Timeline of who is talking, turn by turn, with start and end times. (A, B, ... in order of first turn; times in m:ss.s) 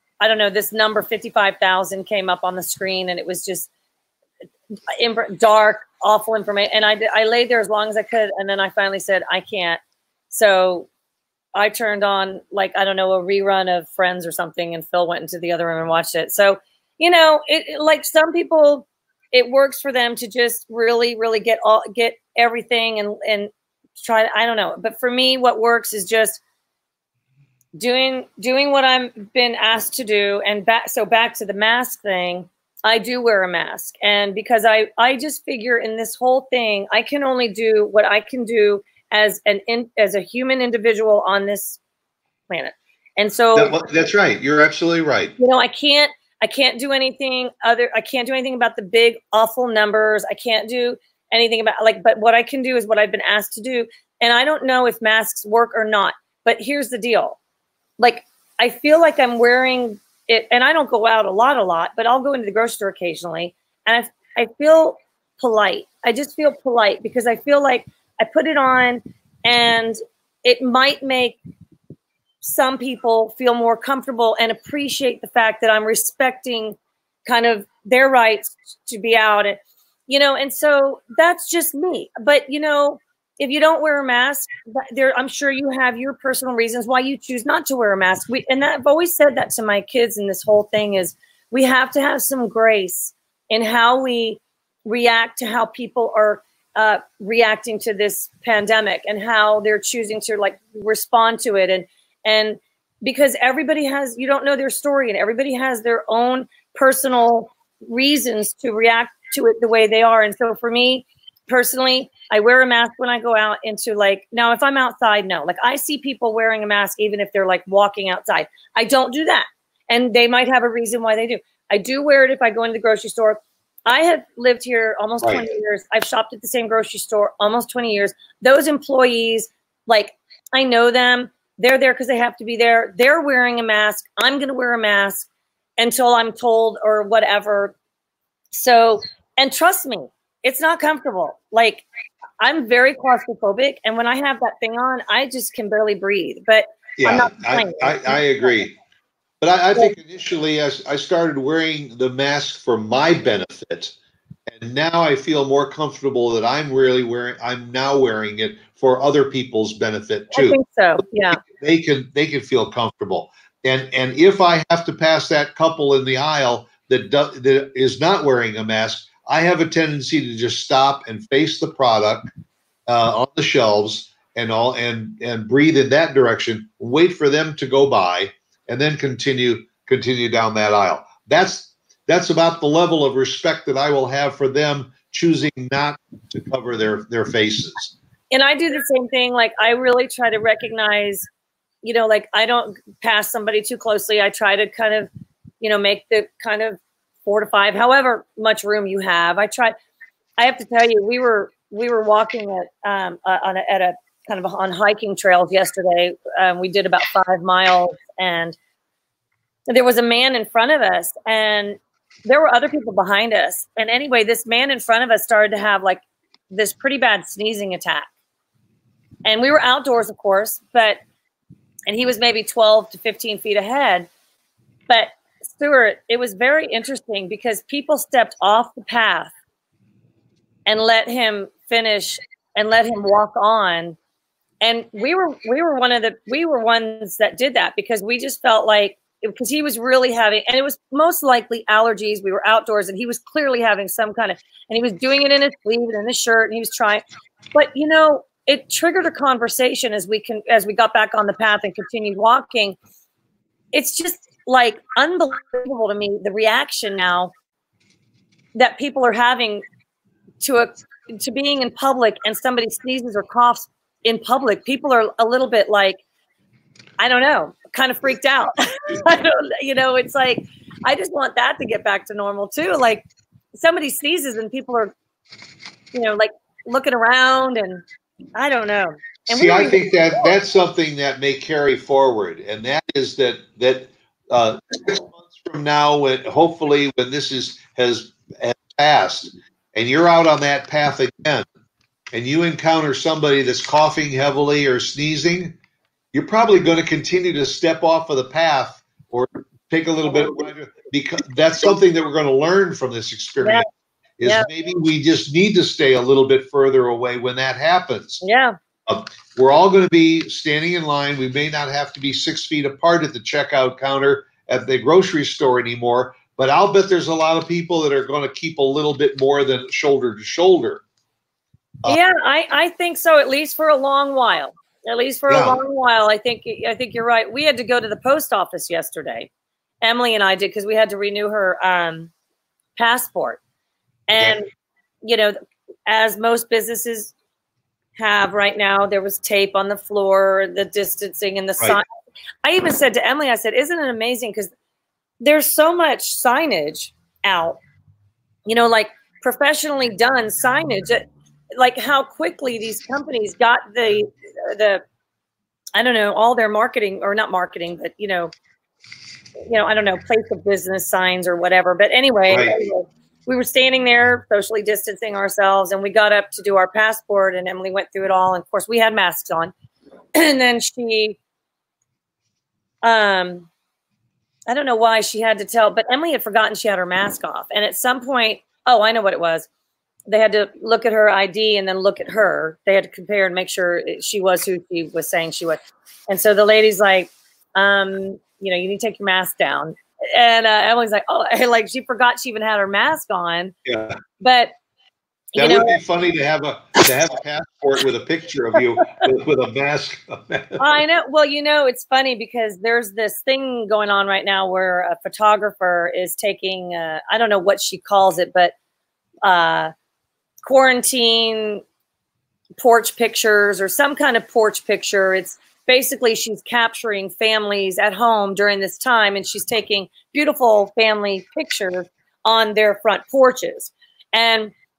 0:00.2-0:03.7 A
0:04.9-0:10.9 A
0:11.5-0:26.4 A
0:27.8-0:41.8 A
0:42.5-0:43.8 A
0:43.5-0:45.3 B
0:45.4-0:57.4 A
0:58.0-1:11.4 A
1:12.4-2:15.3 A
2:05.2-2:05.5 B
2:15.8-2:17.7 A
2:18.5-2:21.8 A
2:22.4-2:28.5 A
2:27.0-2:28.8 B
2:29.4-2:33.9 B
2:34.5-2:40.6 B
2:40.3-2:41.4 A
2:41.4-2:52.3 B
2:52.9-3:07.9 B
3:08.3-3:11.3 A
3:11.8-3:15.1 A
3:15.6-3:19.7 A
3:20.4-3:28.6 A
3:29.7-3:38.1 A
3:39.2-3:41.0 A
3:41.9-3:44.1 A
3:44.9-3:49.3 A
3:50.6-3:54.0 A
3:54.6-4:07.0 A
4:07.5-4:12.8 A
4:13.7-4:17.3 A
4:18.5-4:19.6 A
4:20.4-4:26.0 A
4:27.0-4:34.9 A
4:35.9-4:37.8 A
4:38.3-4:40.3 A
4:39.3-4:51.4 B
4:52.1-4:55.6 B
4:56.1-5:03.7 B
5:03.4-5:03.7 A
5:04.2-5:08.2 B
5:04.2-5:04.5 A
5:08.2-5:08.6 A
5:08.9-5:20.8 B
5:21.8-5:29.3 A
5:25.3-5:25.6 B
5:29.8-5:32.1 A
5:32.8-5:33.4 A
5:34.1-5:34.5 A
5:35.0-5:37.1 A
5:38.0-5:41.8 A
5:42.4-5:44.5 A
5:45.2-5:47.6 A
5:48.4-5:54.8 A
5:55.7-5:58.3 A
5:59.5-6:09.5 A
6:02.3-6:02.6 B
6:10.2-6:11.2 A
6:12.8-6:13.5 A
6:14.5-6:19.5 A
6:20.1-6:33.5 A
6:33.6-6:34.0 B
6:34.2-6:34.5 A
6:35.3-6:35.8 A
6:35.4-6:40.8 B
6:40.6-6:48.5 A
6:49.2-6:49.7 A
6:50.4-6:51.6 A
6:52.6-7:04.5 A